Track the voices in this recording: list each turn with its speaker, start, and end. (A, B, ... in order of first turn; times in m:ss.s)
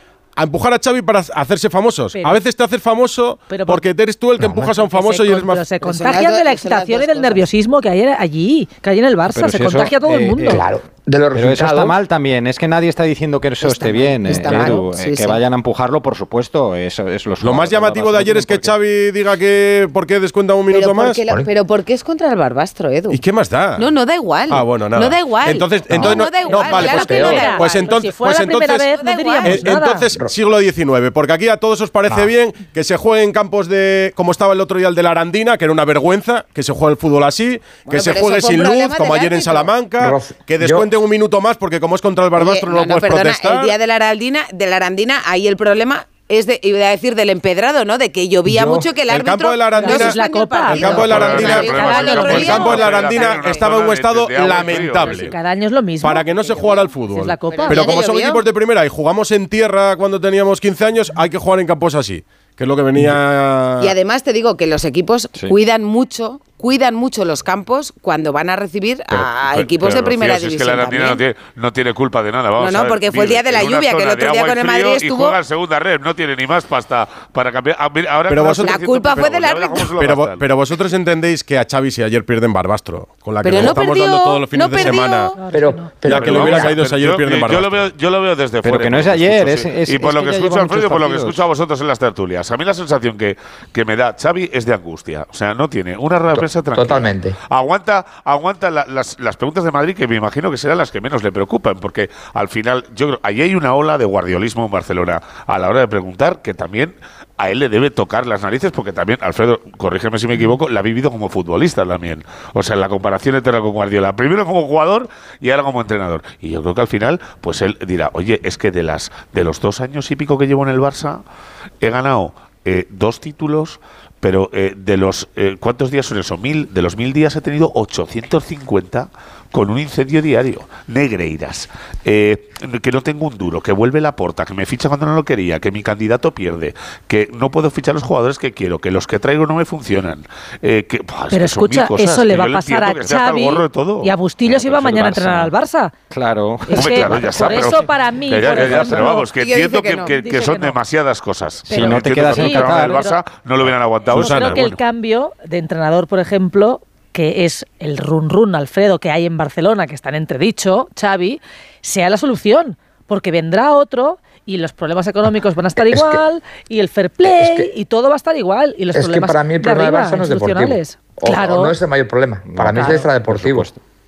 0:00.4-0:05.7 A
0:02.2-0:02.4 B
0:03.5-0:03.9 B
0:04.4-0:04.7 C
0:04.8-0:10.6 B
0:05.8-0:07.5 D
0:09.3-0:10.7 E
0:10.5-0:12.0 C
0:11.3-0:18.8 E
0:13.6-0:15.4 D
0:17.4-0:21.2 A
0:20.7-0:23.2 D
0:23.1-0:23.9 A
0:23.8-0:27.9 D
0:24.5-0:28.9 A
0:26.4-0:30.1 B
0:27.0-0:27.5 C
0:29.0-0:29.6 D
0:29.4-0:43.7 A
0:37.9-0:39.7 D
0:40.0-0:40.9 C
0:42.4-0:53.5 D
0:48.5-0:48.9 C
0:49.1-0:50.2 A
0:49.7-0:52.9 B
0:50.7-0:55.3 A
0:51.1-0:55.2 F
0:54.5-0:57.9 B
0:56.0-1:04.0 A
0:56.4-0:56.9 D
0:57.5-0:58.4 D
1:03.8-1:11.2 D
1:09.1-1:20.5 F
1:12.6-1:15.4 D
1:18.3-1:19.3 A
1:18.6-1:19.9 D
1:20.0-1:25.3 A
1:23.4-1:25.4 D
1:24.8-1:26.0 B
1:25.5-1:26.8 C
1:26.0-1:27.9 A
1:26.1-2:01.2 F
1:28.6-1:31.4 E
1:36.3-1:37.4 C
2:01.8-2:25.3 F
2:21.3-2:25.9 B
2:24.5-2:25.5 E
2:26.1-2:27.8 E
2:26.7-2:29.2 B
2:26.7-2:34.8 F
2:28.5-2:29.0 E
2:28.9-2:30.4 D
2:30.2-2:30.7 B
2:31.7-2:33.0 E
2:31.7-2:33.2 B
2:34.1-2:34.7 A
2:34.1-2:51.8 B
2:45.8-2:46.2 C
2:47.2-2:47.7 C
2:48.9-2:53.7 C
2:52.5-2:53.8 E